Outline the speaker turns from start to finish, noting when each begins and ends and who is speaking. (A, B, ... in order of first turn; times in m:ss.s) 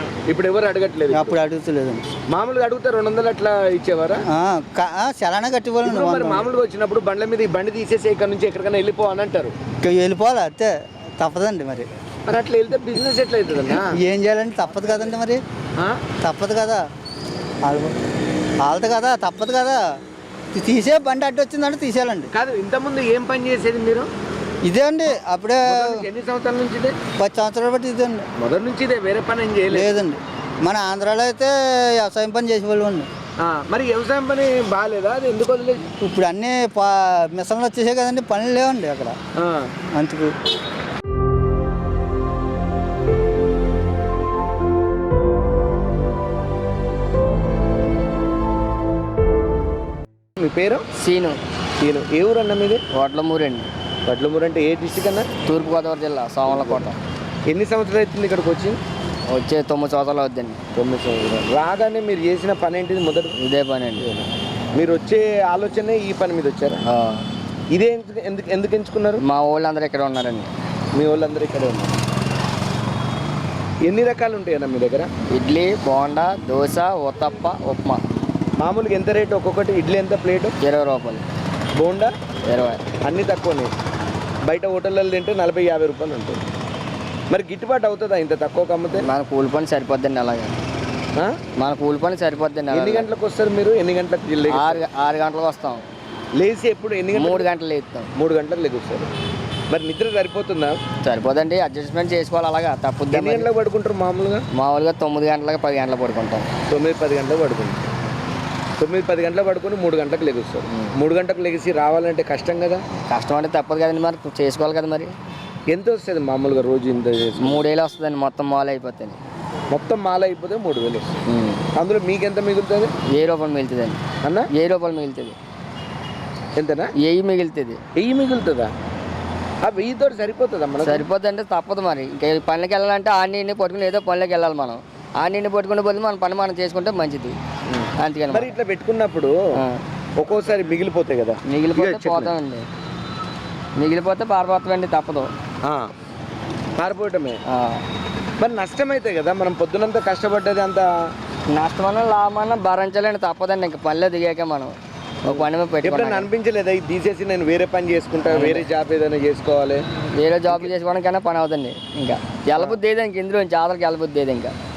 0:00.3-0:01.4 A
0:01.1-0:02.0 B
0:02.3-0:04.2 A
0:04.3-0:06.4 B
0:05.8-0:09.5 A
0:09.8-0:11.9 B
0:12.2-0:14.0 A
0:13.8-0:15.4 B
0:16.2-0:16.8 B
0:17.6-0:17.9 B
0:18.6-0:19.8 B
0:20.5-0:22.3 B
0:22.3-0:24.1 A
0:24.6-0:26.0 B
0:25.6-0:27.0 A
0:27.2-0:28.2 B
0:28.4-0:30.0 A
0:29.7-0:33.1 B
0:33.4-0:35.8 A
0:36.0-0:39.2 B
0:39.4-0:39.7 A
0:39.9-0:40.3 B
0:50.4-0:50.8 A
0:51.0-0:51.4 C
0:51.8-0:52.8 A
0:52.9-0:53.7 C
0:54.0-0:55.3 A
0:55.4-0:57.0 C
0:56.4-0:56.8 A
0:57.5-0:58.8 A
0:59.3-1:00.6 C
1:00.7-1:03.4 A
1:03.4-1:04.1 C
1:04.0-1:06.8 A
1:06.8-1:07.2 C
1:07.7-1:09.2 A
1:09.2-1:10.5 C
1:10.9-1:12.0 A
1:13.8-1:15.1 A
1:15.3-1:18.0 C
1:18.6-1:20.5 A
1:20.6-1:21.2 C
1:21.8-1:22.1 A
1:22.5-1:22.9 C
1:23.0-1:23.7 A
1:24.4-1:26.4 A
1:27.3-1:29.0 A
1:29.0-1:30.6 C
1:31.6-1:33.1 C
1:32.7-1:34.8 A
1:34.5-1:35.8 C
1:36.4-1:37.5 A
1:37.1-1:38.1 C
1:38.1-1:39.1 A
1:39.7-1:40.8 A
1:41.0-1:43.5 C
1:43.1-1:44.4 A
1:44.5-1:46.5 C
1:46.7-1:47.9 A
1:48.8-1:52.8 A
1:53.1-1:55.1 C
1:55.7-1:57.6 A
1:57.4-1:59.2 C
1:59.7-2:01.1 A
2:01.3-2:01.6 C
2:01.7-2:02.9 A
2:03.1-2:04.0 C
2:04.2-2:04.5 A
2:04.5-2:05.4 C
2:06.6-2:06.9 A
2:07.0-2:07.8 C
2:08.0-2:08.7 A
2:09.6-2:11.1 A
2:10.8-2:17.4 C
2:17.7-2:19.4 A
2:18.0-2:18.6 C
2:20.2-2:22.4 A
2:21.5-2:22.6 C
2:23.8-2:25.3 C
2:25.6-2:25.9 A
2:26.8-2:27.4 A
2:27.5-2:27.8 C
2:28.4-2:30.9 A
2:31.5-2:36.3 C
2:35.3-2:39.8 A
2:38.3-2:38.6 C
2:40.2-2:44.5 C